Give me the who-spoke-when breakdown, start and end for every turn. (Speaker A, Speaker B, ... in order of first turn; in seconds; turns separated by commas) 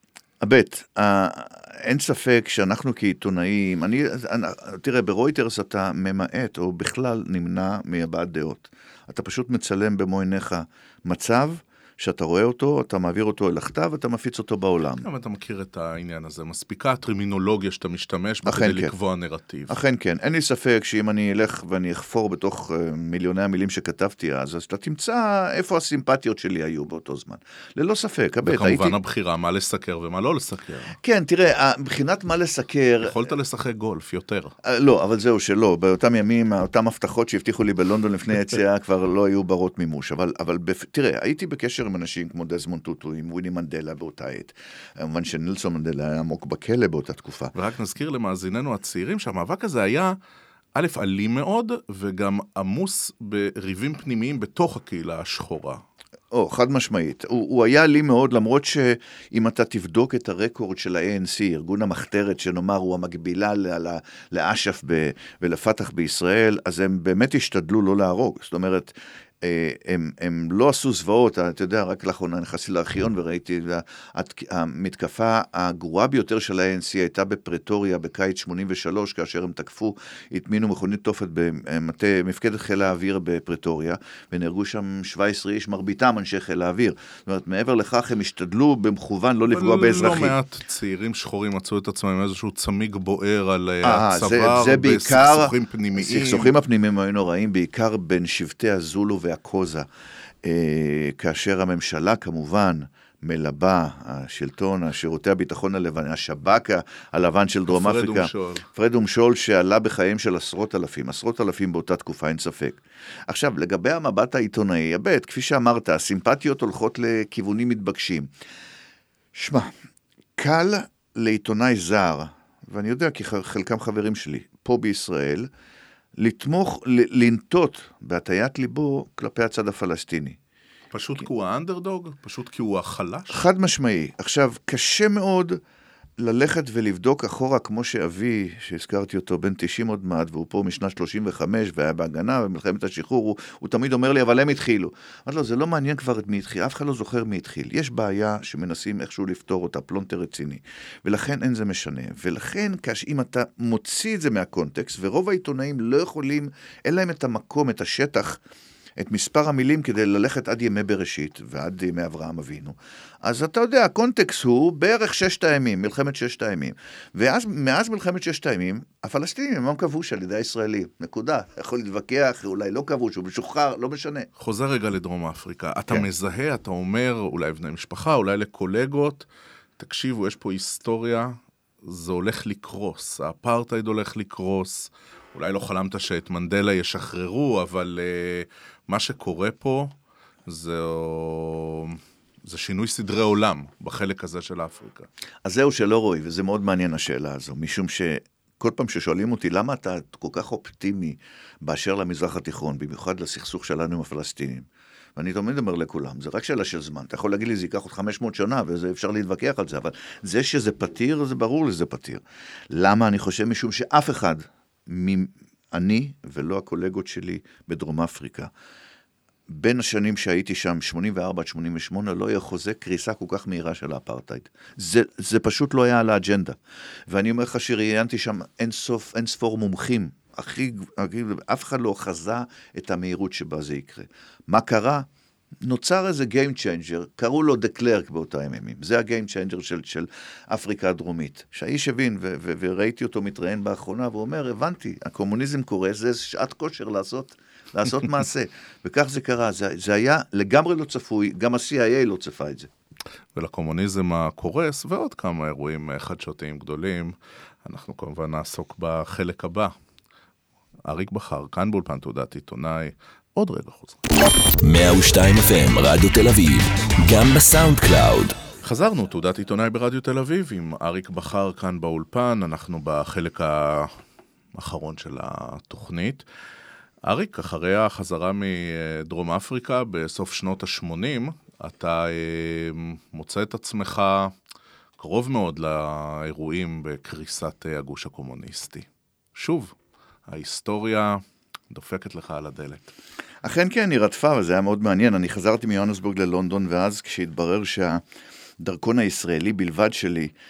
Speaker A: 0.4-15.1, Speaker B: 15.0-19.8, Speaker A: 18.4-18.9, Speaker A: 19.7-29.0, Speaker B: 28.4-30.9, Speaker A: 31.0-33.2, Speaker B: 33.0-34.5, Speaker A: 34.6-47.5, Speaker B: 47.5-50.2, Speaker B: 50.8-55.8, Speaker A: 56.3-90.4, Speaker B: 89.5-96.5, Speaker A: 93.8-99.9, Speaker A: 100.4-118.3, Speaker B: 107.7-108.7, Speaker A: 119.3-119.7, Speaker A: 120.4-125.5, Speaker A: 126.2-130.4, Speaker B: 130.9-133.4, Speaker A: 133.3-135.6, Speaker A: 136.2-158.4, Speaker A: 159.0-174.3, Speaker B: 174.4-179.3, Speaker B: 179.8-189.9, Speaker B: 190.5-195.1, Speaker A: 195.4-218.5, Speaker A: 219.5-226.6, Speaker A: 227.1-235.1, Speaker A: 235.6-252.7, Speaker B: 253.3-259.7, Speaker B: 260.9-264.1, Speaker C: 264.2-268.4, Speaker B: 268.6-273.9, Speaker B: 274.5-276.2, Speaker B: 277.1-284.4, Speaker B: 285.0-289.8, Speaker B: 290.3-292.9, Speaker A: 293.4-298.0, Speaker A: 298.6-300.3